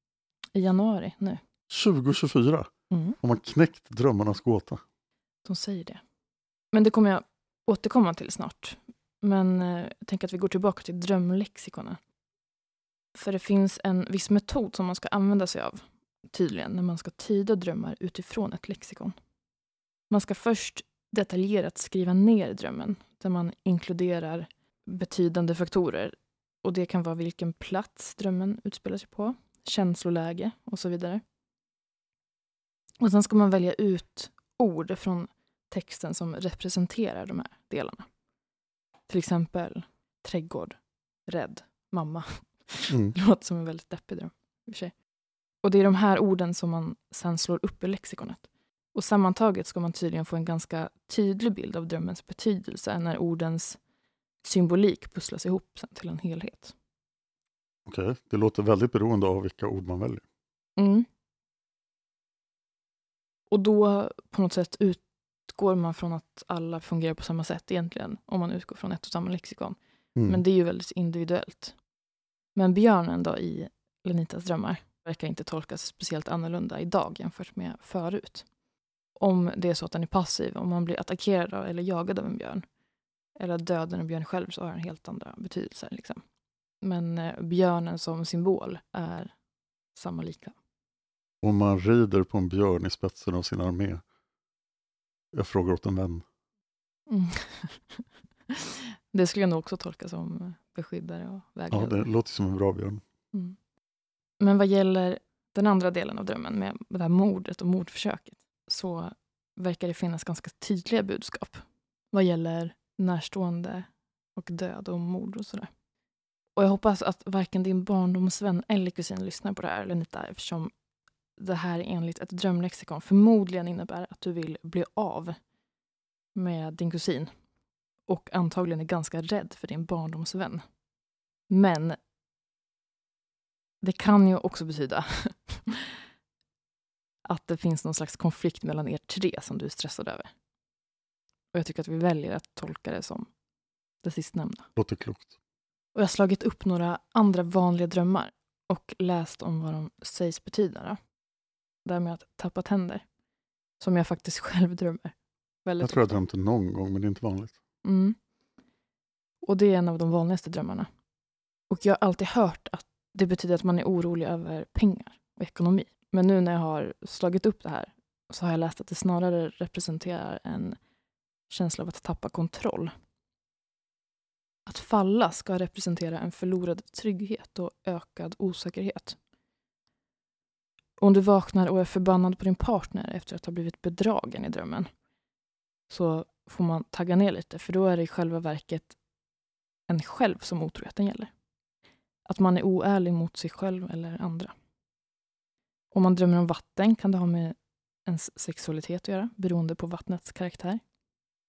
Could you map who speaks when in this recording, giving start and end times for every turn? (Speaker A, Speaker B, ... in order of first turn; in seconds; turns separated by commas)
Speaker A: 0.5-1.4, Speaker B: 1.7-2.7, Speaker A: 2.9-3.2, Speaker B: 3.2-4.8, Speaker A: 5.4-6.0, Speaker A: 6.7-12.0, Speaker A: 13.1-19.1, Speaker A: 20.1-31.2, Speaker A: 33.0-38.1, Speaker A: 39.1-44.9, Speaker A: 45.6-53.8, Speaker A: 54.4-56.7, Speaker B: 57.9-60.2, Speaker A: 60.8-61.0, Speaker A: 63.5-71.8, Speaker B: 70.2-70.4, Speaker A: 72.5-78.5, Speaker A: 79.2-82.6, Speaker A: 83.3-86.2, Speaker A: 86.8-89.3, Speaker A: 89.9-90.5, Speaker B: 91.4-94.0, Speaker B: 95.3-96.2, Speaker A: 97.1-102.1, Speaker B: 101.7-103.0, Speaker A: 103.3-103.6, Speaker A: 104.4-115.7, Speaker A: 116.5-120.7, Speaker A: 121.4-125.3, Speaker A: 126.3-127.3, Speaker A: 128.1-130.6, Speaker A: 131.5-132.0, Speaker A: 133.8-136.0, Speaker A: 137.2-140.3, Speaker A: 141.5-143.3, Speaker A: 144.0-144.7, Speaker B: 144.8-145.3, Speaker A: 145.9-151.0, Speaker A: 151.8-153.0, Speaker A: 153.8-156.2, Speaker B: 155.8-157.6, Speaker A: 157.8-158.2, Speaker A: 159.4-160.9, Speaker A: 161.7-170.8, Speaker A: 171.5-172.9, Speaker A: 174.7-179.2, Speaker A: 181.0-184.9, Speaker A: 185.9-189.0, Speaker A: 189.9-191.3, Speaker A: 192.2-194.5, Speaker A: 195.9-197.5, Speaker A: 198.1-200.8